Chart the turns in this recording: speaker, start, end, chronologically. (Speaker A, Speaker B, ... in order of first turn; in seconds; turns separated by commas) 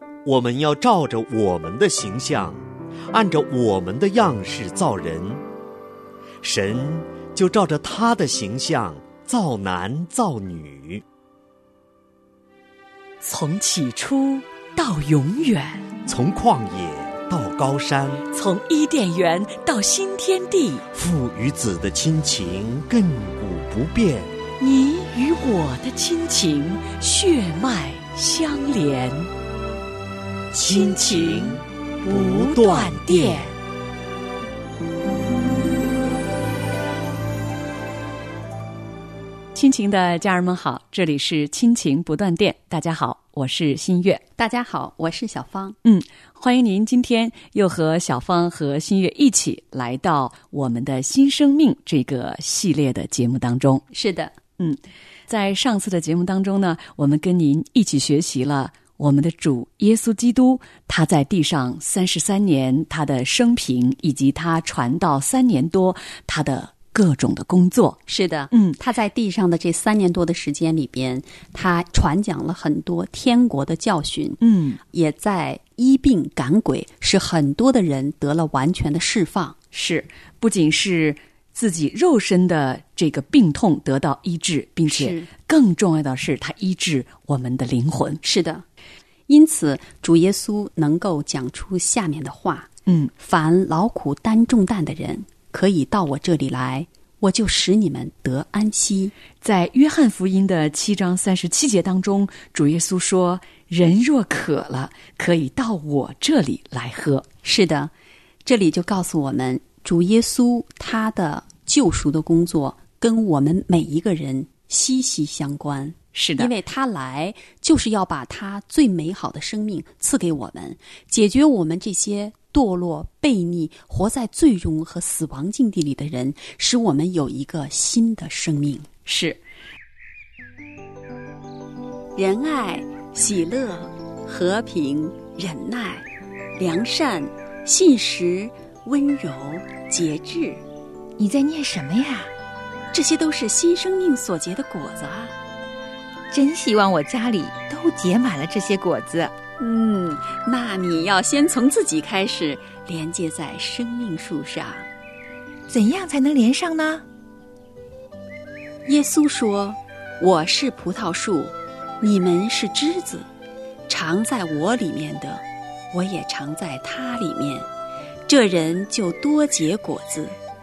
Speaker A: 0.2-5.4, Speaker A: 6.4-11.0, Speaker B: 13.2-15.8, Speaker A: 16.1-18.2, Speaker B: 18.3-20.9, Speaker A: 20.9-24.3, Speaker B: 24.6-29.3, Speaker A: 30.5-33.4, Speaker B: 30.5-33.5, Speaker B: 39.5-44.2, Speaker C: 44.4-45.8, Speaker B: 45.8-53.8, Speaker C: 53.9-54.3, Speaker B: 54.6-68.0, Speaker C: 68.1-79.6, Speaker B: 68.5-68.8, Speaker B: 74.4-74.8, Speaker B: 79.7-88.2, Speaker C: 84.9-85.3, Speaker C: 88.2-88.6, Speaker C: 89.3-99.1, Speaker B: 92.8-93.1, Speaker B: 99.4-107.2, Speaker C: 107.4-107.9, Speaker C: 108.4-128.9, Speaker B: 116.1-116.5, Speaker B: 129.1-129.4, Speaker C: 132.1-136.1, Speaker C: 136.6-140.6, Speaker D: 141.2-142.3, Speaker C: 142.9-145.3, Speaker D: 146.3-149.3, Speaker C: 149.6-154.9, Speaker D: 155.7-157.0, Speaker C: 158.8-163.3, Speaker C: 163.9-167.7, Speaker C: 168.3-170.4